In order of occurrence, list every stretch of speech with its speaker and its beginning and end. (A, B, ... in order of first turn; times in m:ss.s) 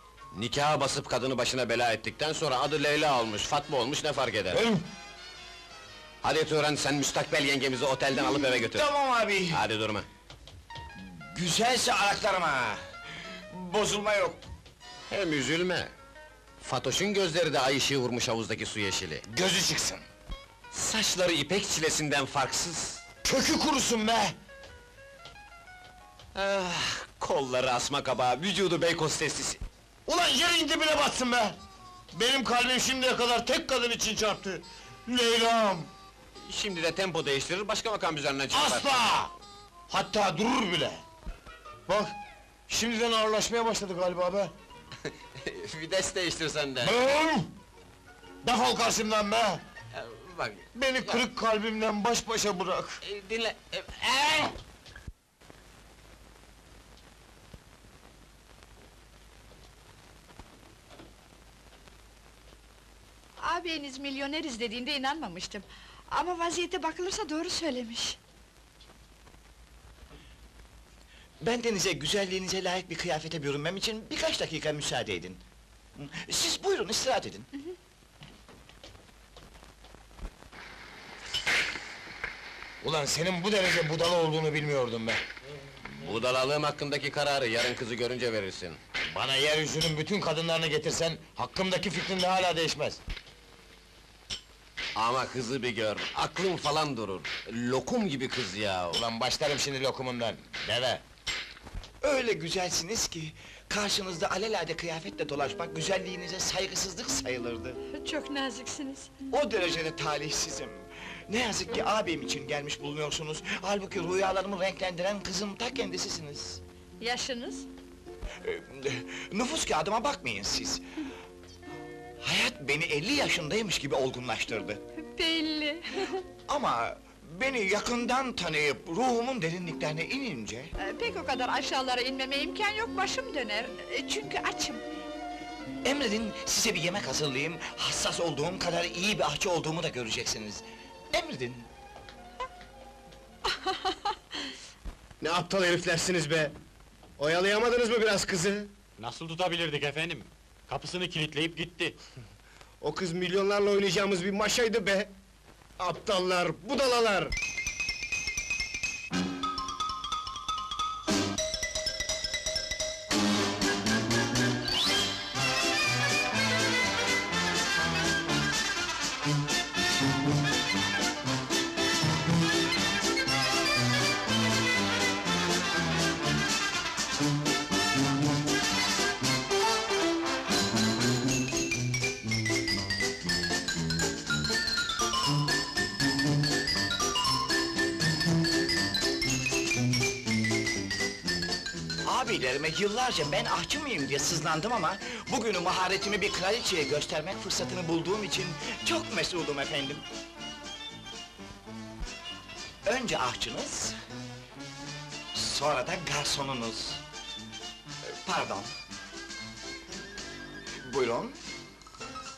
0:00.3-0:04.6 A
0:04.5-0:04.8 B
0:06.2-0:08.9 A
0:08.2-0:09.6 B
0:09.5-0:10.1 A
0:11.0-0:12.8 B
0:13.5-0:14.4 B
0:15.1-0:15.9 A
0:16.6-0:19.3 A
0:19.3-0:20.0 C
0:20.7-0:23.0 A
0:23.2-0:24.4 C
0:26.4-0:29.6 A
0:30.1-0:31.6 C
0:32.1-0:35.9 C
0:36.5-0:39.0 A
0:38.5-0:39.3 C
0:39.9-0:41.0 C
0:41.9-0:42.2 C
0:42.7-0:44.5 C
0:45.0-0:47.0 A
0:46.8-0:47.5 C
0:48.4-0:49.6 C
0:49.9-0:51.2 A
0:50.7-0:53.0 C
0:53.0-0:54.5 A
1:03.4-1:08.2 D
1:11.4-1:15.4 B
1:16.0-1:17.5 B
1:22.8-1:25.2 C
1:26.0-1:28.8 A
1:29.1-1:33.0 C
1:35.0-1:39.0 A
1:38.9-1:41.0 C
1:42.0-1:47.8 B
1:47.9-1:49.1 D
1:49.3-1:56.6 B
1:57.0-1:57.7 D
1:58.4-2:00.8 B
2:02.2-2:04.8 B
2:05.0-2:06.2 D
2:06.5-2:10.7 B
2:10.8-2:14.8 D
2:15.8-2:21.7 B
2:23.5-2:24.0 D
2:25.2-2:26.5 E
2:27.2-2:28.7 E
2:29.0-2:32.0 F
2:32.8-2:35.1 E
2:35.8-2:37.3 E
3:12.0-3:20.0 B
3:22.8-3:24.0 B
3:25.3-3:27.0 B
3:28.2-3:28.7 B
3:30.8-3:31.4 B